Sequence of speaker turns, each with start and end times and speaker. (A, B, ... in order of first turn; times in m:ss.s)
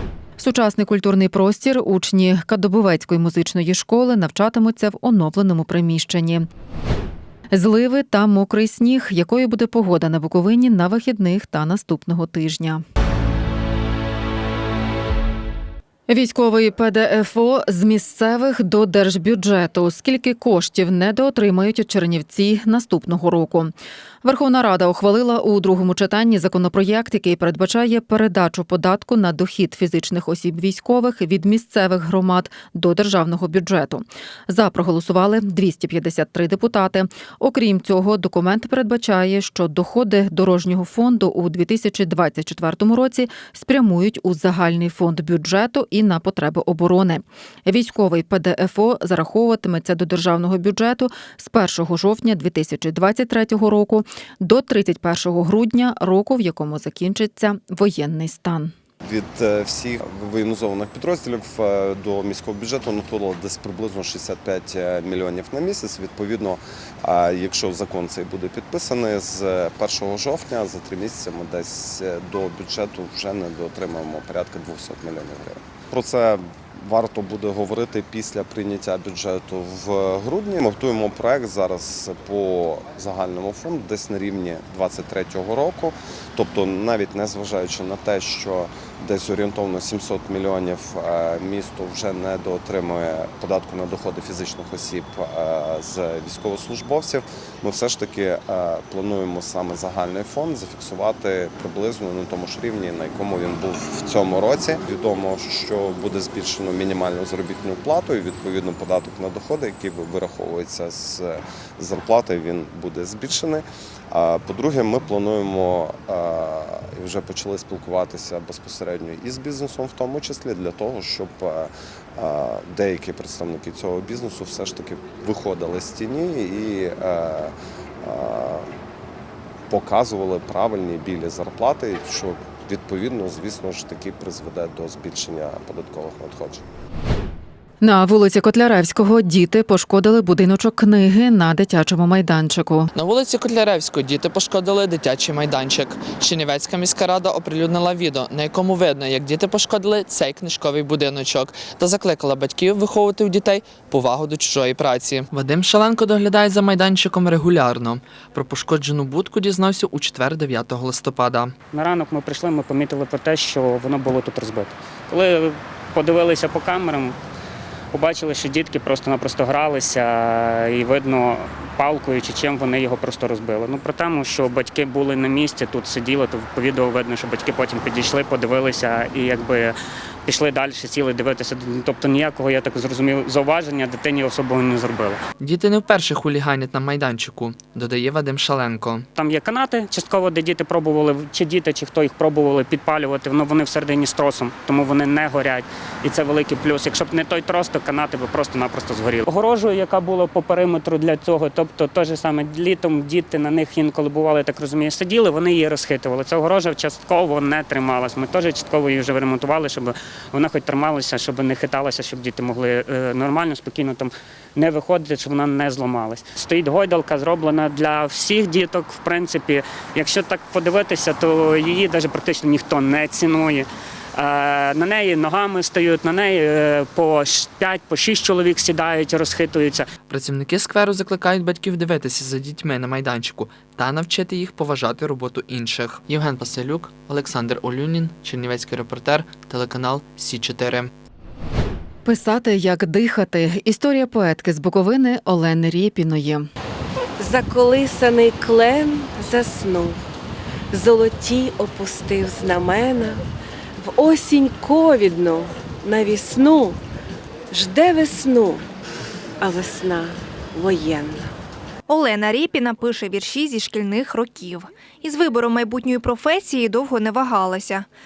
0:00.4-0:06.5 A
0:07.5-0:12.8 A
0:16.1-0:58.7 A
0:59.0-2:08.7 B
2:09.7-2:16.6 B
2:17.8-2:22.9 A
2:22.9-2:41.5 C
2:41.7-2:47.2 D
2:47.9-2:59.8 D
3:00.2-3:05.2 D
3:05.4-3:09.1 C
3:09.1-3:49.9 D
3:50.1-4:00.9 C
4:02.0-4:06.5 A
4:07.2-4:10.0 E
4:10.7-4:13.2 E
4:13.8-4:16.8 E
4:17.5-4:18.6 E
4:19.4-4:21.3 E
4:22.1-4:22.5 F
4:23.0-4:24.4 F
4:25.3-4:27.6 F